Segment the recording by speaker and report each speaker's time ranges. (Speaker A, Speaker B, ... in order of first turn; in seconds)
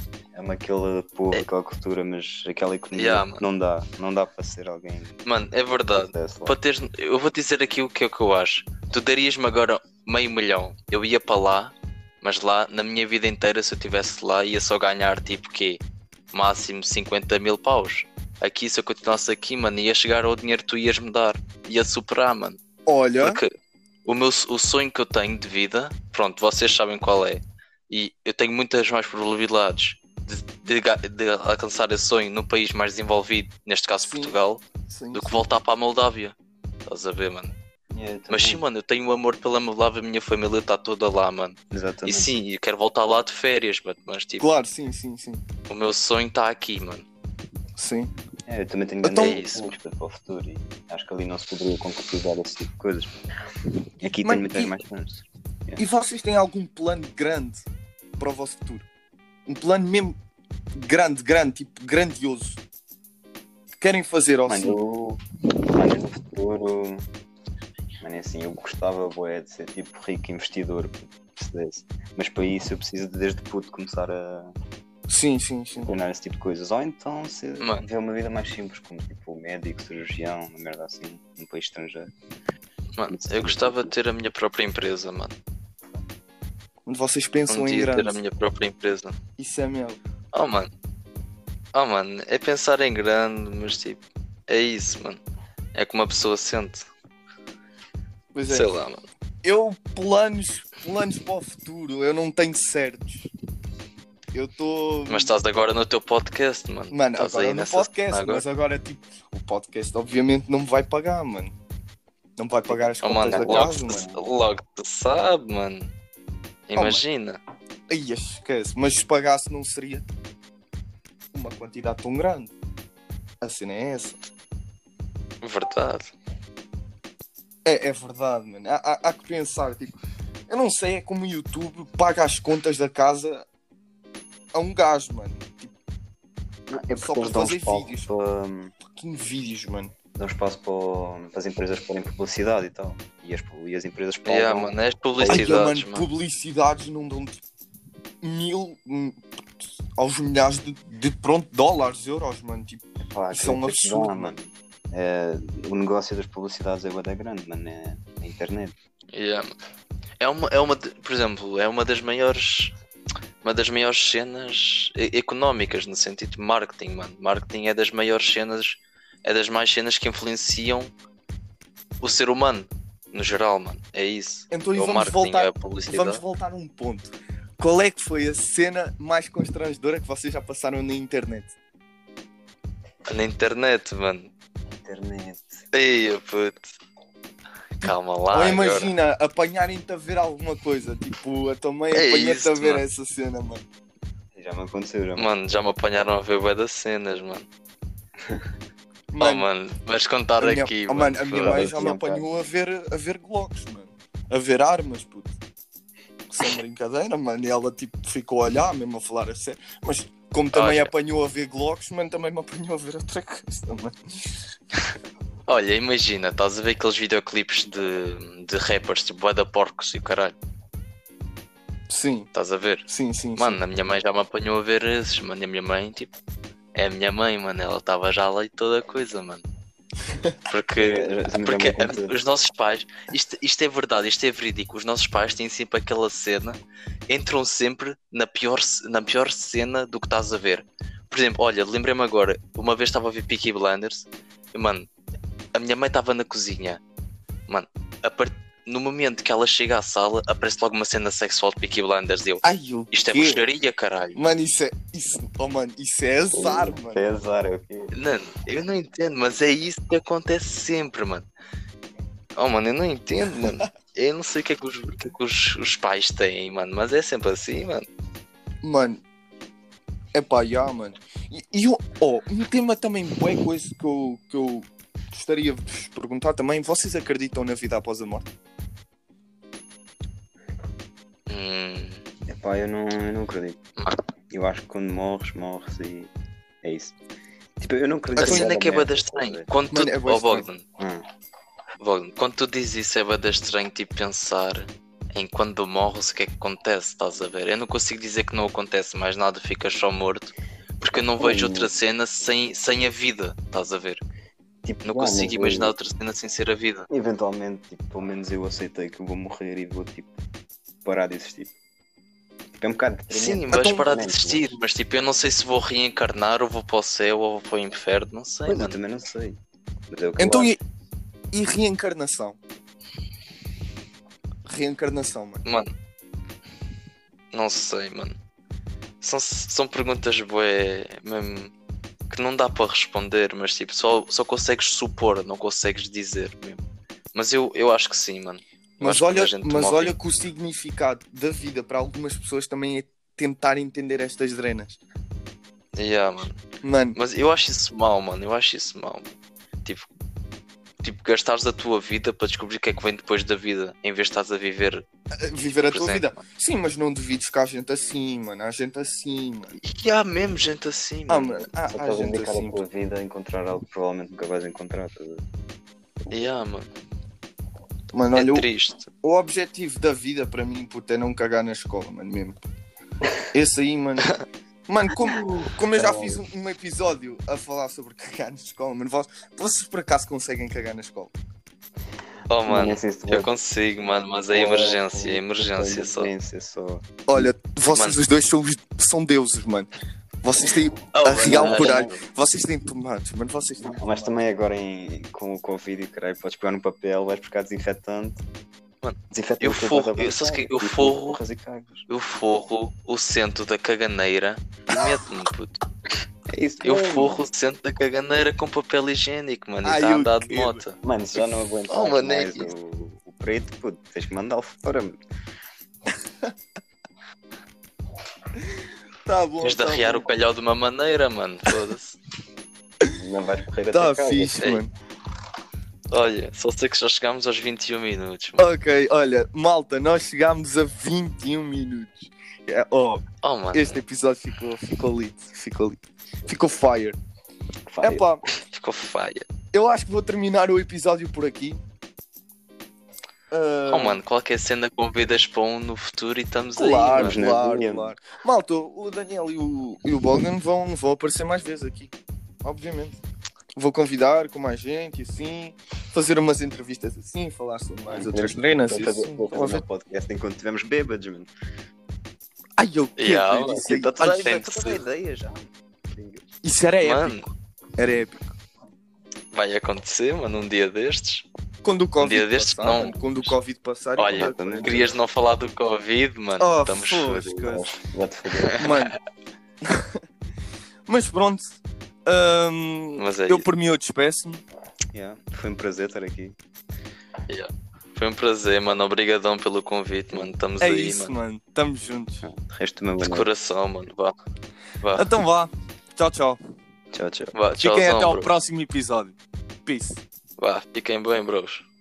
Speaker A: 0.3-5.2, 5.9-6.6, 37.9-38.6, 41.7-42.3, 48.5-53.1, 54.0-55.8, 64.5-67.1, 68.0-74.5, 75.8-82.1, 83.1-83.9, 113.2-114.2, 136.7-138.7, 140.1-145.6, 153.0-158.7, 184.7-185.6, 194.3-195.3, 201.4-202.2, 230.8-232.2, 256.3-257.9, 282.3-283.6, 284.3-286.1, 286.6-286.9, 287.6-289.5, 290.8-291.0, 300.9-301.7, 304.6-305.7, 306.9-310.2, 310.8-311.5, 312.6-314.5, 318.5-319.4, 319.9-320.5, 361.7-365.2, 375.8-376.2, 382.4-383.3, 384.3-387.3, 391.2-392.0, 393.6-398.2, 399.1-401.9, 406.3-407.2, 410.8-415.0, 422.9-424.4, 437.7-438.1, 446.9-447.9, 457.9-461.3, 463.5-466.2, 474.1-474.9, 477.0-478.6, 484.9-486.4, 492.2-493.3, 496.9-497.3
Speaker B: 2.9-3.4, 5.2-15.8, 16.3-22.6, 23.2-23.5, 24.0-34.6, 35.1-36.3, 36.9-37.5, 38.3-44.5, 45.7-47.0, 49.1-49.7, 82.9-85.3, 87.5-89.2, 90.3-90.7, 91.7-95.2, 95.7-96.9, 98.5-99.0, 105.1-108.4, 113.0-115.9, 116.7-117.4, 125.4-126.1, 144.2-146.1, 159.1-159.5, 160.2-162.7, 163.4-170.9, 172.0-176.2, 183.1-184.3, 185.7-186.7, 187.8-188.9, 191.9-192.8, 195.2-197.4, 199.2-201.7, 210.5-210.9, 215.5-220.3, 222.3-226.1, 226.7-229.4, 230.5-244.9, 245.5-246.8, 247.5-254.2, 257.9-261.2, 262.4-267.9, 281.3-282.0, 288.2-290.6, 291.8-304.0, 304.8-306.9, 313.1-318.8, 325.4-325.7, 327.3-328.1, 329.0-331.5, 332.1-336.6, 337.1-339.9, 345.8-346.4, 346.9-349.1, 350.8-354.8, 355.6-356.2, 359.6-361.4, 366.1-366.7, 368.1-368.9, 382.3-386.1, 390.9-391.9, 398.8-401.2, 401.9-405.6, 406.6-412.5, 419.4-422.0, 425.9-428.5, 433.2-433.8, 438.5-439.2, 443.7-447.2, 463.0-464.8, 466.8-467.3, 469.3-471.2, 472.0-473.3, 474.0-477.2, 478.4-478.7, 483.0-483.5, 487.3-491.1, 493.0-494.1, 494.8-495.1, 497.3-498.3, 500.4-501.6
Speaker C: 22.9-23.4, 34.0-35.4, 44.4-45.4, 47.8-48.1, 49.0-49.4, 54.2-54.8, 55.8-57.6, 58.2-58.9, 59.5-60.2, 60.8-62.6, 63.8-64.8, 75.1-75.9, 86.9-88.2, 89.4-90.0, 98.3-98.7, 99.4-103.3, 104.3-105.3, 106.9-111.5, 112.4-114.1, 116.8-117.0, 117.9-120.0, 121.3-122.5, 123.4-124.2, 127.6-130.0, 130.5-133.4, 134.5-135.7, 137.0-138.1, 138.9-139.9, 145.3-147.4, 148.2-149.2, 150.0-154.3, 174.5-181.5, 187.8-193.6, 199.1-199.5, 200.4-205.3, 206.3-213.9, 221.9-222.3, 222.9-223.6, 252.4-253.4, 254.2-257.0, 268.6-269.0, 270.1-278.3, 288.2-288.5, 289.7-290.5, 313.5-313.9, 320.2-320.6, 321.3-322.4, 324.4-325.4, 338.8-344.8, 346.6-347.0, 355.2-359.6, 361.1-362.6, 367.9-368.5, 369.0-372.4, 373.3-374.1, 374.7-381.1, 387.1-389.7, 390.2-394.1, 409.6-410.6, 419.1-420.1, 423.7-424.7, 428.4-437.0, 437.8-438.2, 439.5-441.6, 443.3-444.0, 446.6-451.9, 452.4-453.0, 453.6-459.6, 462.6-464.5, 466.4-468.3, 471.6-474.9, 476.4-477.6, 478.6-478.9, 479.6-479.9, 480.9-484.4, 490.6-492.2, 494.9-496.4, 497.6-500.0